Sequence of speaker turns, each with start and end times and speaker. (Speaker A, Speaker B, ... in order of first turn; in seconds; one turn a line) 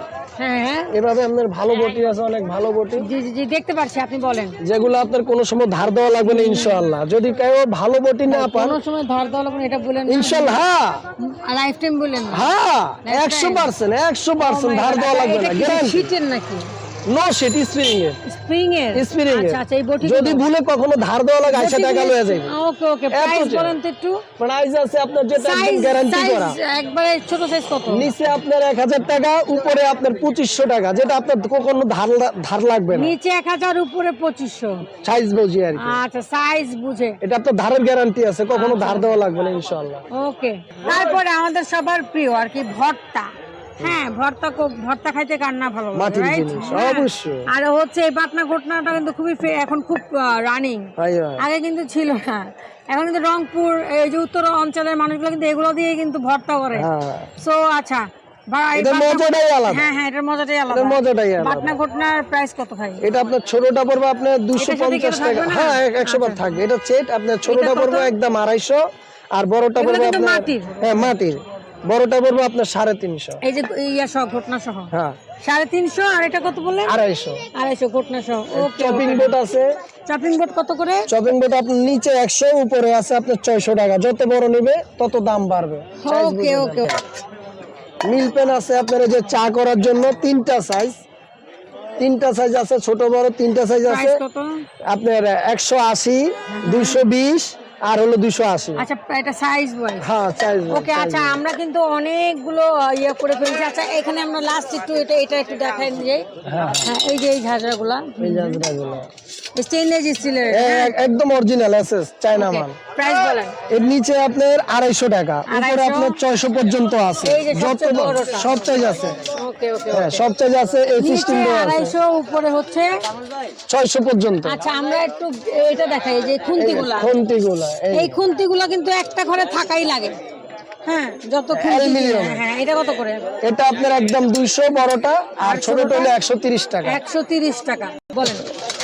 Speaker A: 0.4-1.0
Speaker B: 0.9-3.1
Speaker A: 3.0-4.6
Speaker B: 4.6-8.8
Speaker A: 6.2-6.8
Speaker A: 8.3-10.6
Speaker B: 10.1-11.0
Speaker A: 11.2-12.5
Speaker B: 12.3-16.1
Speaker A: 13.0-13.7
Speaker A: 14.4-16.7
Speaker B: 17.1-18.2
Speaker A: 18.2-20.5
Speaker B: 18.9-22.5
Speaker A: 21.5-24.2
Speaker B: 23.1-23.8
Speaker B: 24.4-26.6
Speaker A: 25.4-28.1
Speaker B: 27.9-33.1
Speaker A: 32.9-34.9
Speaker B: 35.0-36.0
Speaker A: 35.8-37.2
Speaker B: 37.2-40.0
Speaker A: 38.5-39.1
Speaker A: 40.1-63.1
Speaker B: 45.9-47.5
Speaker B: 51.0-51.4
Speaker B: 56.8-57.3
Speaker B: 58.7-59.9
Speaker B: 60.7-61.8
Speaker B: 63.0-73.4
Speaker A: 64.5-66.6
Speaker A: 67.4-68.1
Speaker A: 69.8-71.1
Speaker A: 73.4-77.0
Speaker B: 74.9-75.2
Speaker B: 76.8-77.4
Speaker A: 77.5-79.4
Speaker B: 78.5-79.7
Speaker A: 80.1-81.1
Speaker B: 81.1-87.0
Speaker A: 86.0-86.9
Speaker B: 88.0-91.0
Speaker B: 92.0-94.2
Speaker A: 93.8-94.7
Speaker B: 94.9-98.8
Speaker A: 96.5-97.0
Speaker A: 98.8-100.0
Speaker B: 100.0-101.4
Speaker A: 100.7-108.6
Speaker B: 106.4-106.9
Speaker B: 108.2-109.1
Speaker A: 109.5-110.9
Speaker B: 110.5-112.8
Speaker A: 112.3-113.5
Speaker B: 113.7-119.2
Speaker A: 115.5-116.2
Speaker A: 117.2-118.7
Speaker A: 119.3-120.2
Speaker B: 119.9-122.0
Speaker A: 121.0-123.0
Speaker B: 123.7-124.6
Speaker A: 124.4-127.2
Speaker B: 126.5-128.1
Speaker A: 127.9-130.2
Speaker A: 130.8-133.3
Speaker B: 131.5-132.4
Speaker B: 133.4-137.0
Speaker A: 135.4-136.2
Speaker A: 136.8-138.5